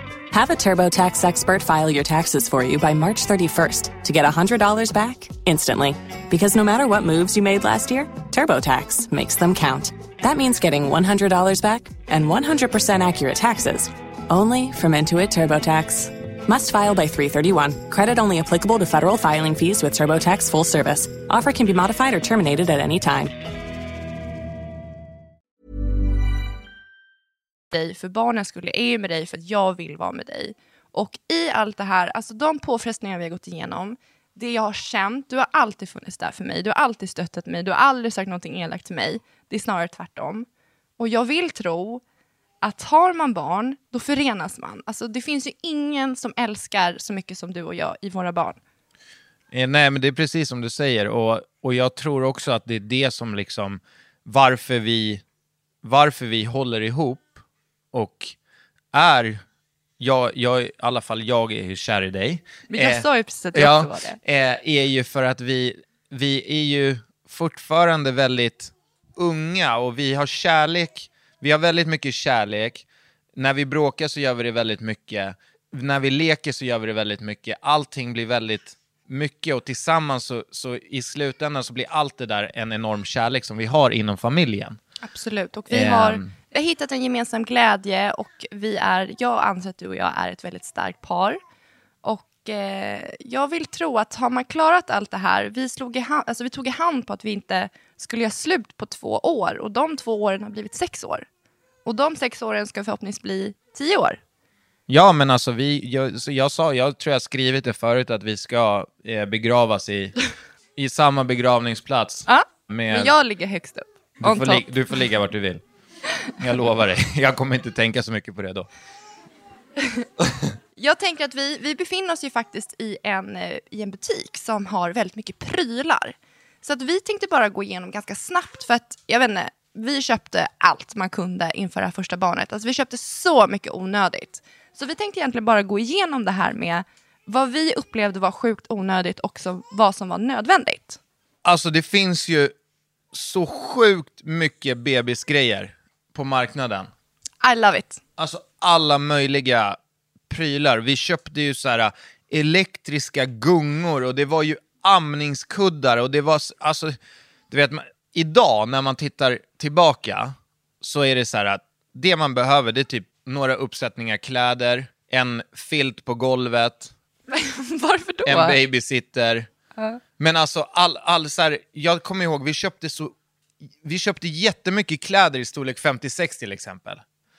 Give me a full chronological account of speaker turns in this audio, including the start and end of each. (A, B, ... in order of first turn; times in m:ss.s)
0:00.3-0:23.3 A
0:27.7-0:40.5 B
0:41.0-0:42.0 B
0:42.6-0:48.6 B
0:49.5-0:55.2 C
0:55.8-0:57.4 C
0:57.9-0:58.3 C
0:58.9-0:59.4 C
1:00.0-1:24.8 C
1:02.7-1:04.2 B
1:25.0-1:31.4 B
1:25.7-1:26.3 C
1:32.0-1:41.3 B
1:41.8-1:44.2 B
1:44.9-1:50.2 C
1:50.8-1:53.1 C
1:52.3-1:54.6 B
1:54.2-1:55.6 C
1:56.4-1:58.7 C
2:00.2-2:00.5 C
2:00.8-2:21.0 B
2:21.4-2:22.5 C
2:23.1-2:26.9 C
2:27.4-2:28.0 B
2:28.2-2:29.8 C
2:30.3-2:37.0 C
2:37.5-2:46.9 C
2:47.3-2:48.6 B
2:48.2-2:49.5 C
2:50.2-2:53.1 C
2:53.7-2:57.0 C